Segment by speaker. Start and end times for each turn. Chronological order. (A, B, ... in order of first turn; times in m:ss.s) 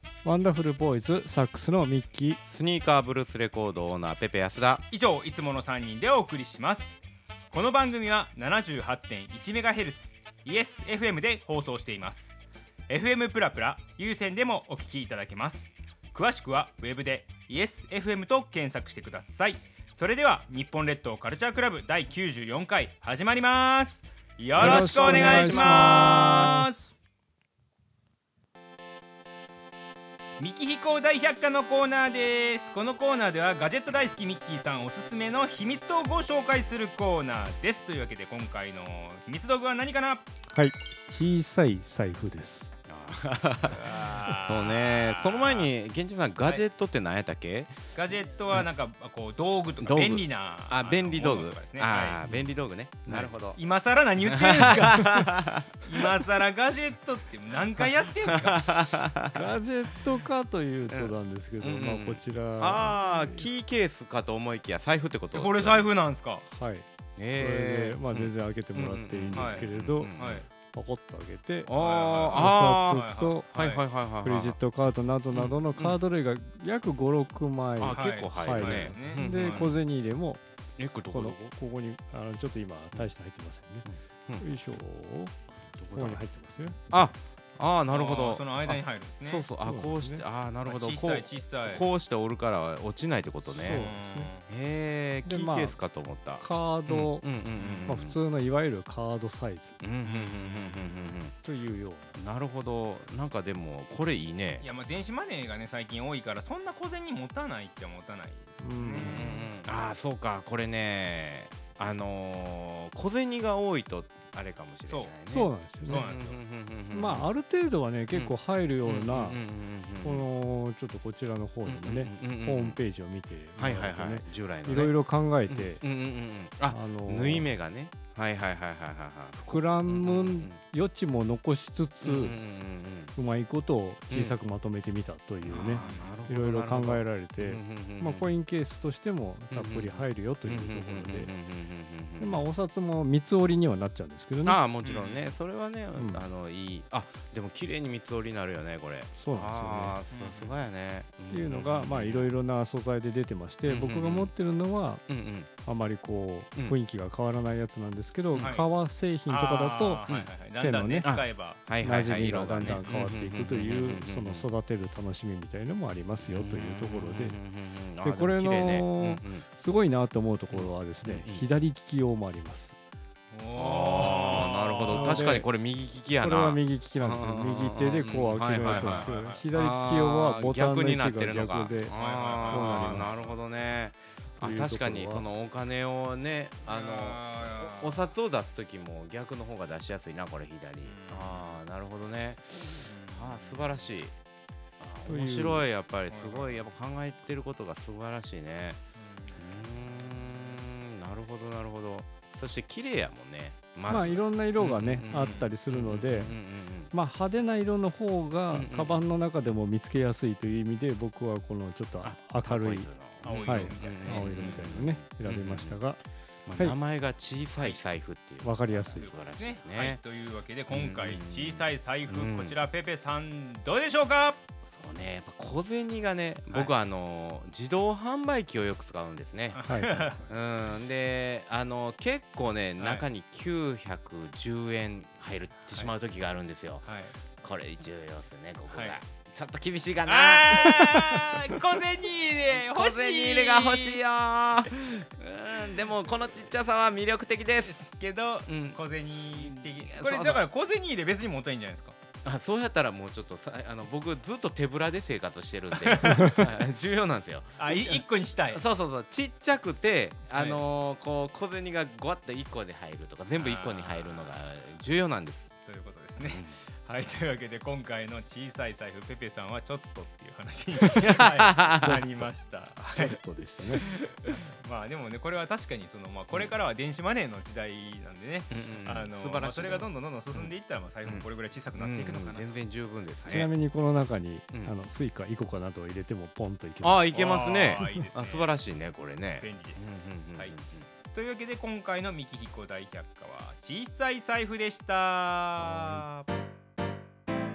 0:00.2-0:02.4 A
0:02.4-0:04.8 B
0:04.9-0:07.0 C
0:07.5-0:27.0 C
0:24.5-0:26.8 A
0:24.6-0:26.4 B
0:30.4-0:40.2 C
0:40.5-0:42.7 A
0:42.9-0:47.7 B
0:43.6-0:45.7 C
0:47.9-0:52.2 C
0:49.8-0:53.6 B
0:53.1-0:58.6 C
0:54.2-0:56.1 B
0:58.3-0:59.4 B
0:59.3-1:03.5 A
1:00.9-1:05.9 B
1:05.3-1:06.4 C
1:06.4-1:11.7 A
1:07.2-1:10.4 B
1:09.3-1:10.5 C
1:11.7-1:14.6 B
1:11.7-1:13.8 C
1:12.3-1:13.6 A
1:14.2-1:20.4 A
1:15.3-1:15.9 B
1:17.8-1:19.8 B
1:17.8-1:19.7 C
1:20.8-1:21.5 B
1:21.1-1:23.9 A
1:23.8-1:24.5 B
1:24.4-1:25.3 A
1:25.7-1:26.2 B
1:25.9-1:26.8 A
1:26.8-1:33.9 B
1:27.9-1:29.5 C
1:29.6-1:30.2 A
1:30.6-1:31.8 C
1:33.5-1:34.3 A
1:33.7-1:34.4 C
1:34.5-1:38.2 B
1:35.2-1:35.8 A
1:36.4-1:37.3 A
1:37.6-1:37.9 C
1:37.9-1:39.8 A
1:39.8-1:41.3 B
1:40.0-1:40.9 C
1:41.4-1:42.2 A
1:42.2-1:44.7 B
1:44.6-1:49.1 C
1:48.6-1:49.5 A
1:48.9-1:57.3 B
1:54.8-1:55.1 C
1:55.3-1:56.1 A
1:55.8-1:56.4 C
1:56.9-1:59.4 A
1:58.1-2:00.3 B
2:00.0-2:05.8 A
2:01.6-2:02.8 B
2:03.6-2:10.6 B
2:06.7-2:07.5 A
2:09.4-2:12.4 A
2:12.0-2:13.1 B
2:13.1-2:21.3 A
2:14.1-2:14.4 B
2:15.4-2:18.3 B
2:15.7-2:16.1 C
2:19.5-2:22.4 B
2:22.2-2:24.6 A
2:24.4-2:32.3 B
2:24.8-2:25.2 C
2:26.0-2:26.2 A
2:29.2-2:30.0 A
2:30.1-2:30.5 C
2:31.3-2:40.0 A
2:33.6-2:34.3 B
2:35.1-2:35.5 B
2:38.4-2:38.7 C
2:39.3-2:41.6 C
2:40.6-2:41.1 A
2:41.0-2:44.5 B
2:41.8-2:47.4 A
2:46.2-2:49.4 B
2:48.0-2:52.8 A
2:50.5-2:51.5 B
2:53.3-2:55.3 C
2:53.5-3:14.1 B
2:54.9-2:55.5 A
2:56.2-3:03.2 A
2:58.6-2:59.4 C
3:01.8-3:03.4 C
3:04.4-3:05.3 A
3:06.6-3:08.1 C
3:10.8-3:11.6 C
3:12.8-3:13.7 C
3:14.8-3:18.8 B
3:15.1-3:15.6 A
3:16.1-3:16.6 C
3:19.0-3:20.6 C
3:19.4-3:26.9 B
3:23.9-3:26.4 A
3:25.1-3:25.5 C
3:26.9-3:36.0 A
3:28.5-3:29.0 B
3:32.0-3:35.8 B
3:33.2-3:34.6 C
3:36.4-3:40.0 B
3:38.4-3:39.1 A
3:39.0-3:44.4 C
3:40.7-3:42.6 B
3:44.7-4:01.5 B
3:49.5-3:50.3 C
3:52.8-3:53.0 C
3:56.8-3:57.1 C
3:58.7-3:59.0 C
4:00.0-4:04.0 C
4:02.5-4:07.8 B
4:07.6-4:11.9 C
4:08.5-4:10.5 B
4:12.2-4:25.5 B
4:15.7-4:16.4 C
4:16.1-4:16.4 A
4:17.6-4:18.6 C
4:20.3-4:20.6 C
4:23.4-4:24.3 C
4:25.6-4:33.2 C
4:26.2-4:26.6 B
4:31.1-4:32.2 B
4:33.0-4:33.9 A
4:34.0-4:42.5 C
4:38.5-4:40.5 B
4:41.0-4:43.5 B
4:43.2-4:47.2 A
4:46.8-4:50.9 B
4:47.1-4:48.5 C
4:49.4-4:50.5 C
4:51.1-4:56.3 C